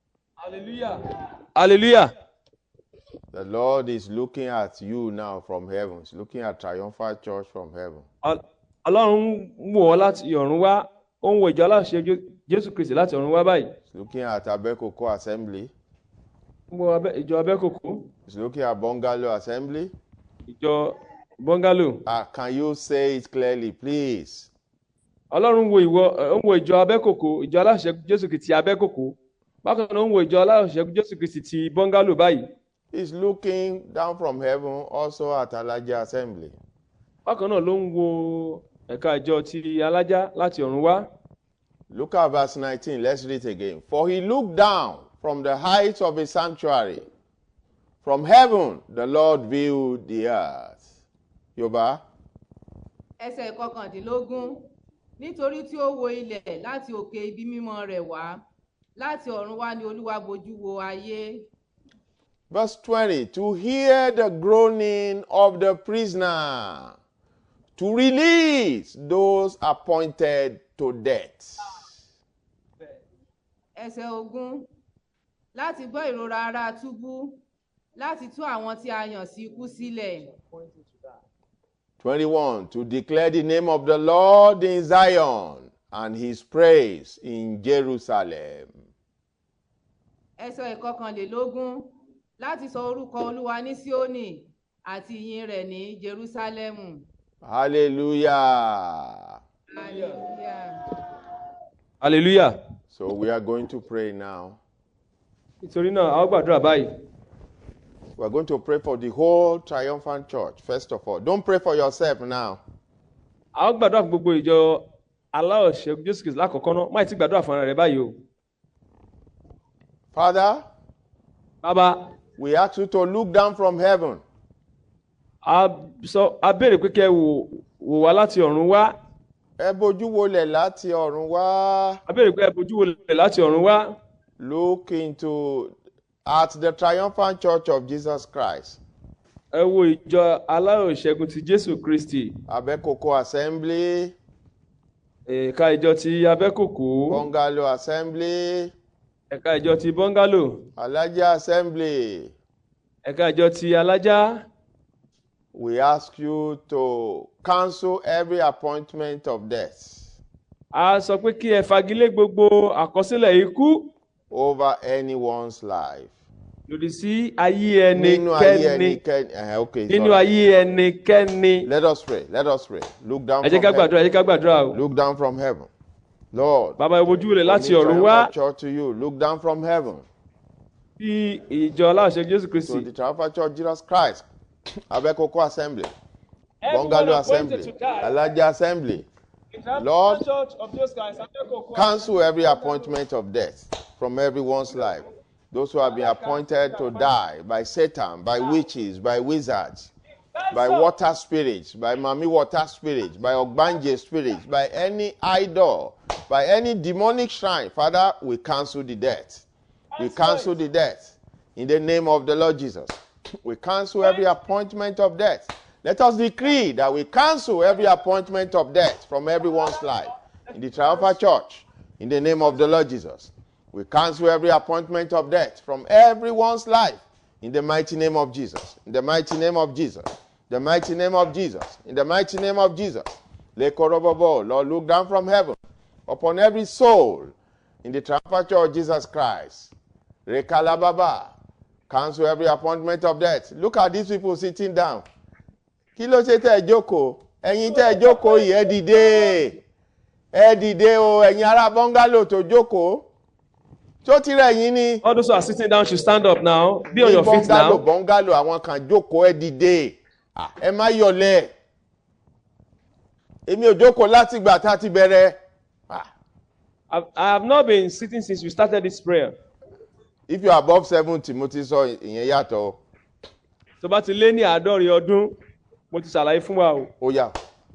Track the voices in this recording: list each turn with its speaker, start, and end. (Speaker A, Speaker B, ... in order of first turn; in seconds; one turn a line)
Speaker A: 0.4-1.0
Speaker A: 1.5-2.1
Speaker B: 3.3-8.1
Speaker A: 8.2-13.7
Speaker B: 13.9-15.7
Speaker A: 16.7-18.1
Speaker B: 18.3-19.9
Speaker A: 20.5-22.0
Speaker B: 22.1-24.5
Speaker A: 25.3-32.5
Speaker B: 32.9-36.6
Speaker A: 37.2-41.1
Speaker B: 41.9-47.0
Speaker B: 48.0-50.8
Speaker B: 51.5-52.0
Speaker C: 53.2-54.6
Speaker C: 55.2-58.4
Speaker C: 59.0-61.5
Speaker B: 62.5-67.0
Speaker B: 67.8-71.8
Speaker C: 73.8-74.7
Speaker C: 75.5-77.4
Speaker C: 77.9-80.3
Speaker B: 82.0-88.7
Speaker C: 90.4-91.9
Speaker C: 92.4-97.0
Speaker B: 97.4-99.4
Speaker C: 99.7-100.8
Speaker A: 99.8-100.2
Speaker A: 102.0-102.5
Speaker B: 102.9-104.6
Speaker A: 105.6-106.9
Speaker B: 108.2-112.6
Speaker A: 113.5-118.2
Speaker B: 120.1-120.6
Speaker A: 121.6-122.1
Speaker B: 122.4-124.2
Speaker A: 125.4-129.0
Speaker B: 129.6-132.0
Speaker A: 132.1-134.0
Speaker B: 134.4-135.7
Speaker B: 136.3-138.8
Speaker A: 139.5-142.4
Speaker B: 142.5-144.2
Speaker A: 145.3-147.3
Speaker B: 147.1-148.7
Speaker A: 149.3-150.7
Speaker B: 150.8-152.3
Speaker A: 153.1-154.4
Speaker B: 155.5-160.2
Speaker A: 160.7-163.9
Speaker B: 164.3-166.1
Speaker A: 166.7-169.0
Speaker B: 167.9-170.3
Speaker A: 169.9-171.7
Speaker B: 171.7-173.9
Speaker A: 173.4-174.8
Speaker B: 174.7-175.7
Speaker B: 176.3-180.1
Speaker A: 176.8-178.3
Speaker A: 181.0-182.9
Speaker B: 182.6-184.2
Speaker B: 184.9-185.9
Speaker A: 186.6-188.2
Speaker B: 186.7-189.1
Speaker A: 189.5-192.9
Speaker B: 189.8-190.2
Speaker B: 191.8-199.9
Speaker A: 195.8-197.1
Speaker A: 200.3-200.9
Speaker B: 200.5-209.4
Speaker A: 209.9-210.5
Speaker B: 210.0-237.3
Speaker B: 237.8-239.7
Speaker B: 240.3-241.3
Speaker B: 241.9-245.1
Speaker B: 246.0-249.6
Speaker B: 250.3-253.1
Speaker B: 254.0-255.0
Speaker A: 255.0-257.8
Speaker B: 256.9-261.5
Speaker B: 263.5-265.4
Speaker A: 266.9-269.3
Speaker B: 270.3-272.8
Speaker A: 273.8-275.3
Speaker A: 275.9-276.9
Speaker B: 277.0-277.3